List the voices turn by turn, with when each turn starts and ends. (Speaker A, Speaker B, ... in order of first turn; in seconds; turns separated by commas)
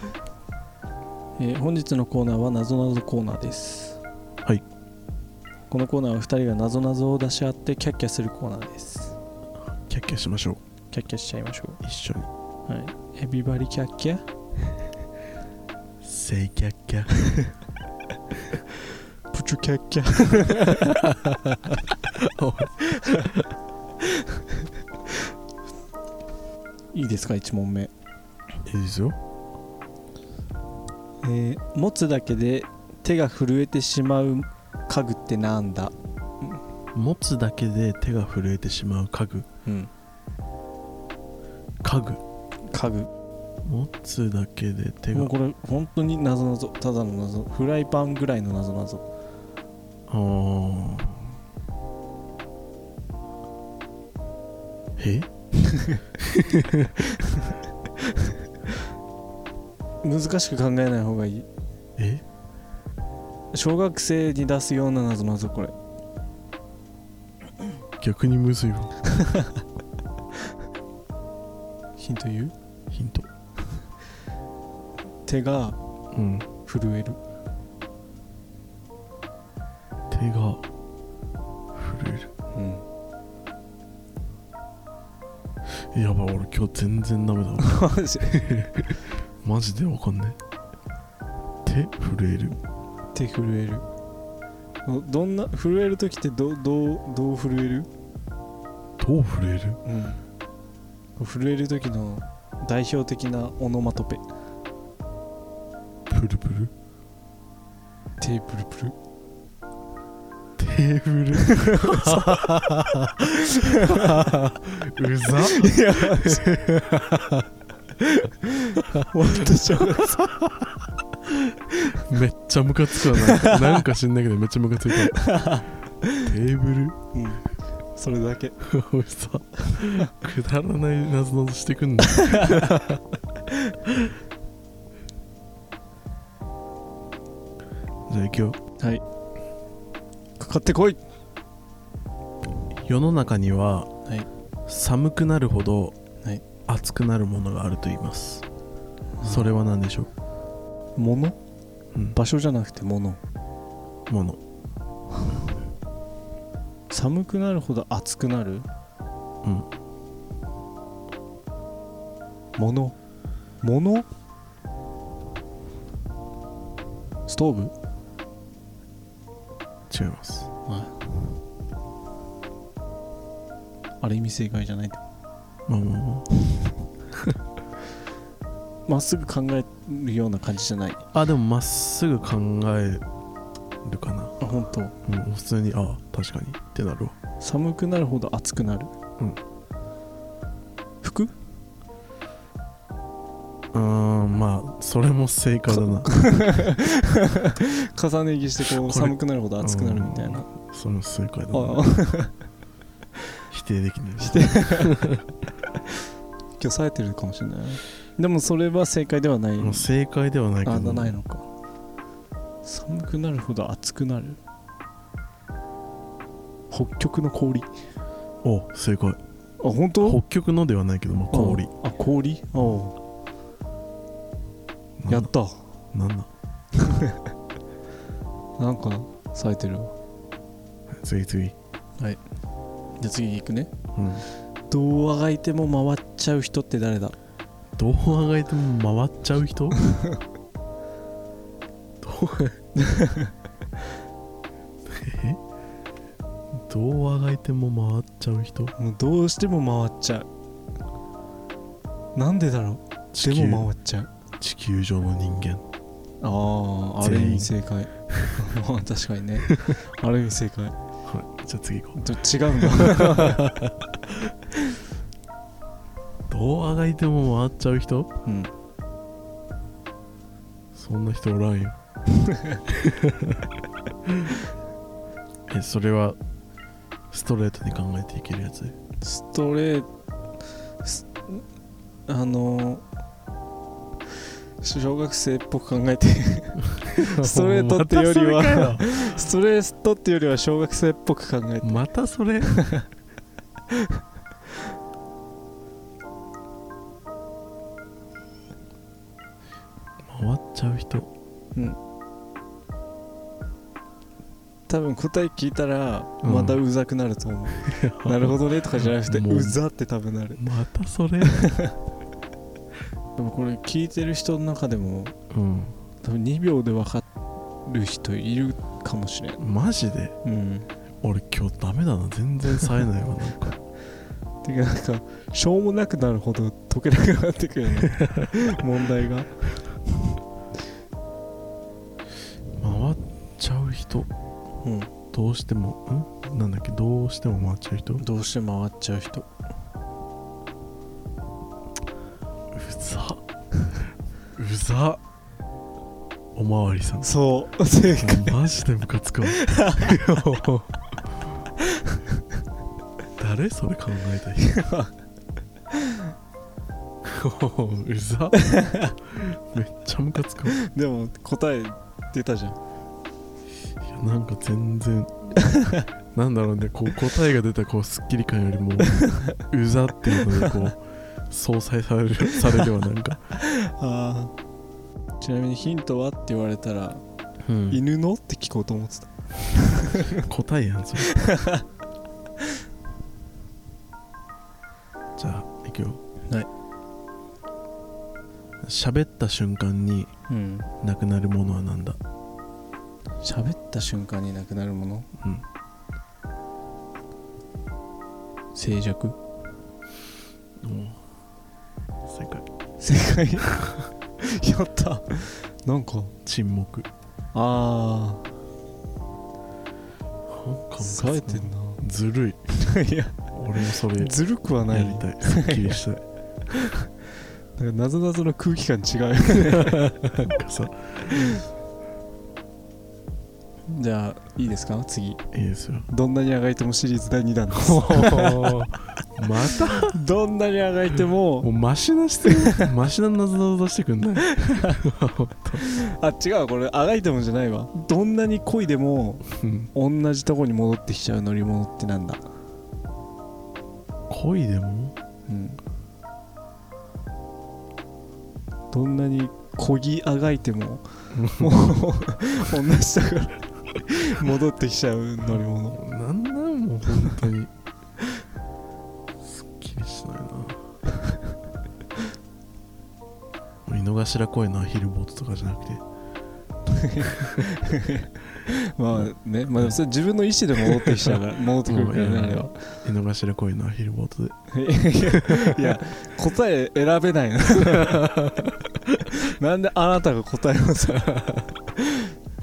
Speaker A: 1.4-4.0, Speaker A: 5.7-9.2, Speaker B: 9.7-10.6, Speaker A: 10.9-11.8, Speaker B: 11.8-12.3, Speaker A: 12.7-14.2, Speaker B: 16.0-17.1, Speaker A: 17.2-17.5, Speaker A: 19.3-21.0, Speaker B: 20.8-23.5, Speaker A: 22.9-23.3, Speaker A: 24.1-24.4, Speaker A: 26.9-27.9, Speaker B: 28.6-29.2, Speaker A: 31.2-36.6, Speaker B: 36.9-39.5, Speaker B: 41.8-42.2, Speaker A: 42.7-43.1, Speaker B: 43.6-45.3, Speaker A: 45.1-49.0, Speaker B: 50.1-51.3, Speaker B: 55.0-55.3, Speaker A: 55.6-56.0, Speaker B: 56.2-57.0, Speaker A: 60.0-61.5, Speaker B: 62.0-62.2, Speaker A: 63.5-65.7, Speaker B: 68.0-69.0, Speaker A: 69.1-69.5, Speaker A: 72.0-72.5, Speaker B: 72.9-73.3, Speaker A: 75.2-75.8, Speaker B: 76.1-76.5, Speaker A: 76.7-77.2, Speaker B: 80.1-80.6, Speaker B: 81.7-82.3, Speaker A: 82.5-82.8, Speaker B: 85.7-90.4, Speaker A: 87.6-88.3, Speaker B: 91.6-92.5, Speaker A: 93.1-93.8, Speaker A: 94.8-97.9, Speaker B: 99.0-99.8, Speaker A: 99.8-100.2, Speaker A: 101.2-104.2, Speaker B: 106.1-106.7, Speaker A: 108.2-108.9, Speaker B: 110.6-117.5, Speaker A: 111.4-112.2, Speaker A: 113.5-114.2, Speaker A: 115.5-116.5, Speaker A: 118.0-120.2, Speaker B: 118.8-125.3, Speaker A: 123.1-123.8, Speaker A: 125.1-126.3, Speaker B: 126.2-127.0, Speaker A: 127.1-127.4, Speaker A: 128.0-128.6, Speaker B: 128.6-133.2, Speaker A: 129.7-130.0, Speaker A: 132.1-132.6, Speaker B: 133.8-134.2, Speaker B: 138.1-138.6, Speaker A: 140.4-141.0, Speaker B: 142.8-143.9, Speaker B: 144.7-145.9, Speaker B: 146.7-148.4, Speaker A: 149.2-149.5, Speaker B: 149.2-150.1, Speaker A: 150.9-151.4, Speaker A: 152.1-153.2, Speaker B: 154.1-154.4, Speaker A: 156.9-158.7, Speaker B: 159.4-159.7, Speaker A: 162.6-163.0, Speaker A: 163.6-164.1, Speaker A: 167.3-167.7, Speaker B: 169.9-170.5, Speaker A: 170.7-171.0, Speaker A: 174.0-175.0, Speaker B: 175.7-176.3, Speaker A: 178.9-181.0, Speaker B: 181.1-183.0, Speaker B: 183.8-184.4, Speaker A: 184.4-184.9, Speaker B: 185.0-187.1, Speaker A: 187.4-188.9, Speaker A: 191.0-191.3, Speaker B: 193.7-196.6, Speaker A: 195.7-200.5, Speaker B: 198.6-201.8, Speaker A: 201.5-202.3, Speaker B: 203.5-205.3, Speaker A: 204.2-205.0, Speaker A: 206.6-209.9, Speaker B: 209.6-211.2, Speaker A: 210.6-211.4, Speaker A: 212.6-214.4, Speaker A: 216.7-217.7, Speaker B: 218.4-219.2, Speaker A: 219.6-220.2, Speaker B: 220.0-221.7, Speaker A: 221.3-222.9, Speaker B: 225.0-225.3, Speaker A: 225.1-225.7, Speaker B: 225.9-226.3, Speaker A: 226.8-227.2, Speaker A: 228.6-229.9, Speaker B: 230.9-231.5, Speaker A: 233.0-233.7, Speaker B: 233.9-234.2, Speaker A: 234.7-237.1, Speaker B: 237.8-239.8, Speaker A: 239.8-240.2, Speaker B: 242.0-242.6, Speaker A: 242.7-243.3, Speaker B: 244.9-245.4, Speaker B: 246.6-248.7, Speaker A: 248.8-250.3, Speaker A: 252.2-254.1, Speaker B: 253.1-253.7, Speaker B: 254.4-255.6, Speaker A: 256.2-260.7, Speaker B: 257.0-257.5, Speaker B: 261.0-262.0, Speaker A: 261.9-263.4, Speaker B: 262.6-264.1, Speaker B: 266.3-268.1, Speaker A: 268.2-268.5, Speaker B: 270.7-271.8, Speaker A: 272.2-272.6, Speaker B: 272.7-273.5, Speaker B: 274.1-274.3, Speaker B: 275.5-276.2, Speaker B: 277.1-278.8, Speaker A: 279.0-279.9, Speaker A: 280.8-281.4, Speaker A: 282.1-282.8, Speaker A: 284.6-291.8, Speaker B: 286.8-288.9, Speaker B: 291.6-292.6, Speaker A: 292.4-292.9, Speaker B: 300.1-301.1, Speaker A: 304.7-310.4, Speaker B: 306.2-306.6, Speaker B: 307.6-309.6, Speaker B: 310.4-311.5, Speaker A: 311.2-311.7, Speaker A: 313.2-315.1, Speaker B: 315.3-315.8, Speaker A: 316.0-317.1, Speaker A: 317.6-319.4, Speaker B: 319.4-320.1, Speaker A: 320.2-320.7, Speaker B: 321.0-323.6, Speaker A: 324.4-329.4, Speaker B: 328.0-328.3, Speaker B: 332.6-334.1, Speaker A: 334.6-334.9, Speaker B: 335.1-338.0, Speaker A: 338.0-339.3, Speaker B: 342.5-343.2, Speaker B: 344.4-345.0, Speaker B: 346.3-347.1, Speaker A: 347.0-348.4, Speaker B: 348.0-350.9, Speaker A: 349.3-350.0, Speaker A: 351.7-352.0, Speaker B: 353.2-354.5, Speaker A: 354.4-354.9, Speaker A: 355.7-356.0, Speaker B: 357.0-360.6, Speaker A: 358.4-358.9, Speaker A: 360.5-362.6, Speaker B: 363.8-365.5, Speaker A: 365.4-365.8, Speaker B: 366.1-373.3, Speaker A: 369.0-369.4, Speaker A: 373.4-374.3, Speaker A: 375.2-377.0, Speaker B: 377.4-377.8, Speaker A: 377.7-380.2, Speaker B: 380.2-381.1, Speaker A: 381.1-381.6, Speaker B: 385.2-386.0, Speaker B: 388.6-390.1, Speaker A: 390.3-390.7, Speaker B: 390.8-392.0, Speaker A: 393.2-395.1, Speaker B: 395.2-395.4, Speaker A: 398.5-399.1, Speaker B: 400.6-401.0, Speaker B: 402.1-402.4, Speaker A: 402.8-406.1, Speaker B: 406.2-406.9, Speaker A: 407.3-408.2, Speaker B: 410.3-412.4, Speaker A: 410.8-411.8, Speaker A: 412.6-413.2, Speaker B: 413.3-416.0, Speaker A: 413.7-415.8, Speaker A: 416.5-416.9, Speaker A: 417.6-419.9, Speaker B: 419.5-421.4, Speaker A: 421.1-421.4, Speaker A: 423.7-425.2, Speaker B: 425.3-425.9, Speaker A: 425.9-428.6, Speaker B: 427.5-430.0, Speaker A: 429.7-431.5, Speaker B: 431.4-435.6, Speaker A: 432.2-432.7, Speaker A: 434.2-434.8, Speaker A: 435.6-442.2, Speaker B: 439.3-439.7, Speaker B: 444.1-444.9, Speaker A: 445.3-445.6, Speaker A: 448.7-455.8, Speaker B: 451.1-451.5, Speaker B: 455.7-457.5, Speaker B: 459.2-460.6, Speaker B: 463.6-465.8, Speaker A: 466.7-472.6, Speaker B: 470.8-471.1, Speaker B: 471.6-474.4, Speaker A: 474.5-478.1, Speaker B: 475.0-475.8, Speaker B: 477.6-479.1, Speaker A: 479.1-482.1